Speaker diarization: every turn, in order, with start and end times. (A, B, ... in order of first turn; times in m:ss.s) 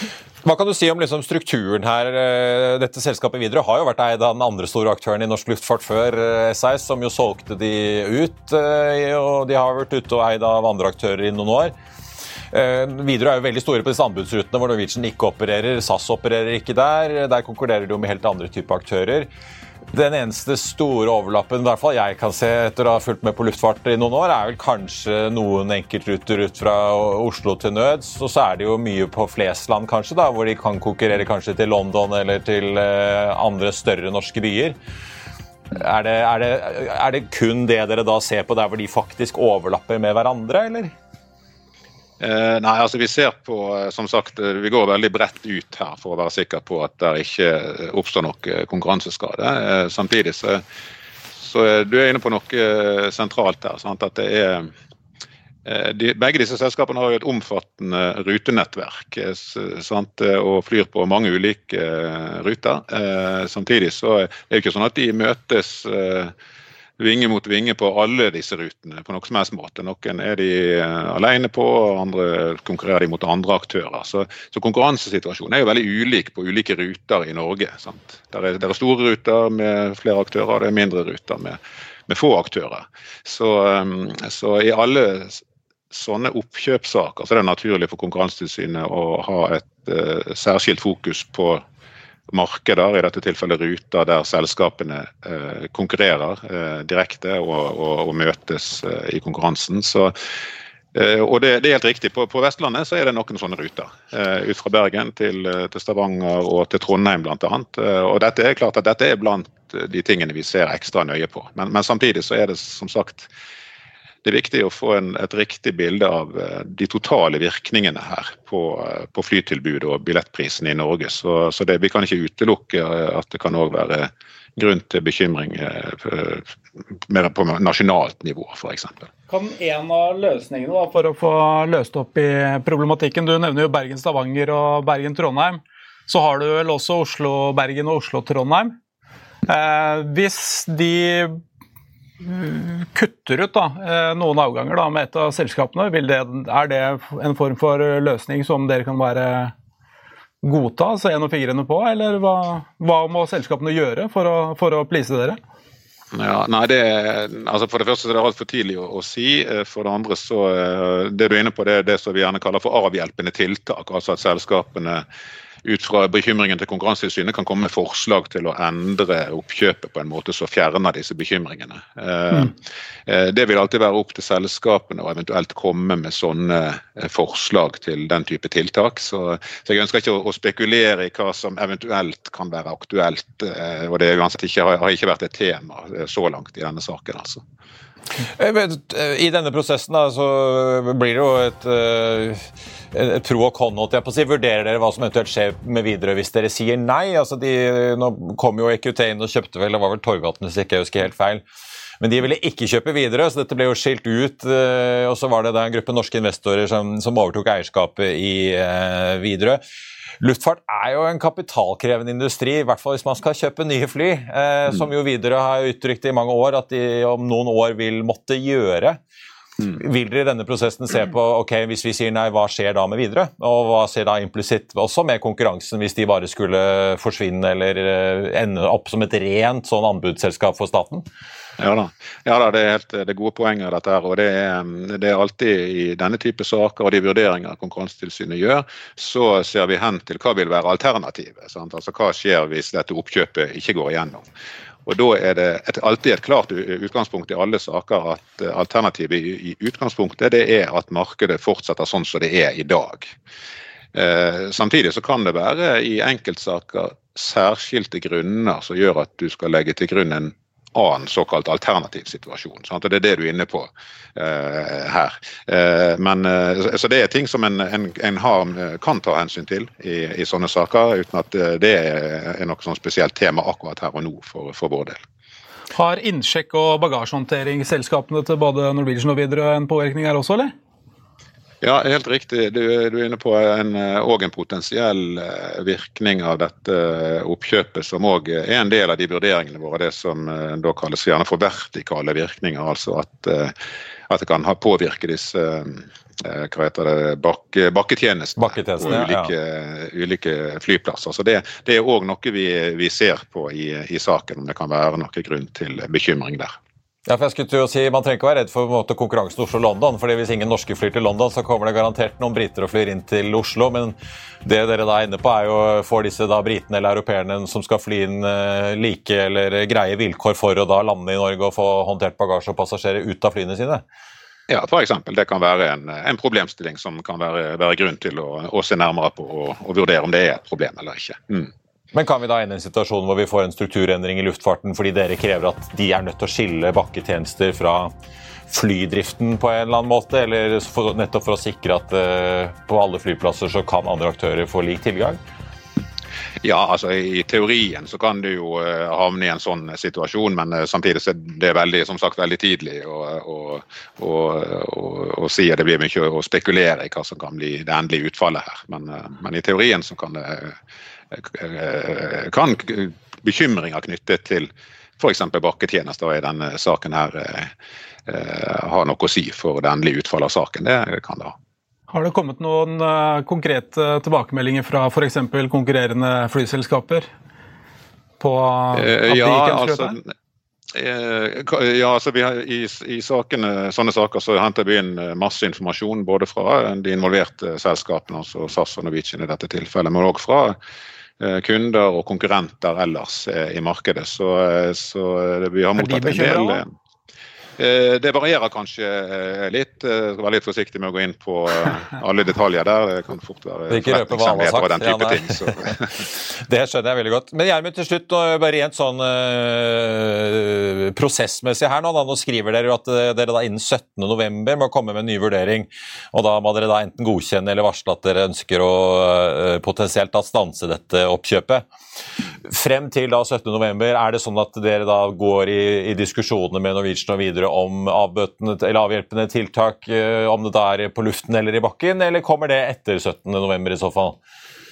0:00.4-0:11.7 A
0:12.5-0:19.3 A
0:19.9-0:34.8 A
0:35.7-0:40.9 A
0:42.2-0:50.6 B
0:51.4-0:54.7 B
0:55.6-1:06.3 B
1:07.0-1:31.6 B
1:32.3-1:40.1 B
1:40.9-1:53.3 B
1:54.2-2:06.5 B
2:07.1-2:09.1 B
2:09.3-2:18.7 C
2:19.5-2:21.4 C
2:22.2-2:29.5 C
2:30.4-2:35.4 C
2:36.1-2:45.0 B
2:45.6-2:52.5 B
2:53.1-3:07.4 B
3:08.2-3:21.4 A
3:22.0-3:29.6 A
3:30.2-3:39.0 A
3:39.7-3:51.0 A
3:51.6-4:04.2 B
4:04.8-4:13.1 B
4:13.9-4:35.0 B
4:35.7-4:40.5 C
4:41.6-4:53.5 B
4:54.1-5:06.5 B
4:58.4-4:59.3 A
5:07.0-5:23.8 A
5:24.5-5:31.5 B
5:31.9-5:37.9 A
5:38.5-5:45.2 A
5:46.4-6:00.6 B
6:01.1-6:07.5 B
6:08.1-6:11.3 B
6:11.9-6:17.1 C
6:18.2-6:20.0 C
6:18.7-6:20.1 B
6:20.7-6:30.6 B
6:31.2-6:36.7 B
6:35.8-6:36.6 C
6:37.6-6:45.9 B
6:43.7-7:01.7 A
7:02.4-7:14.2 A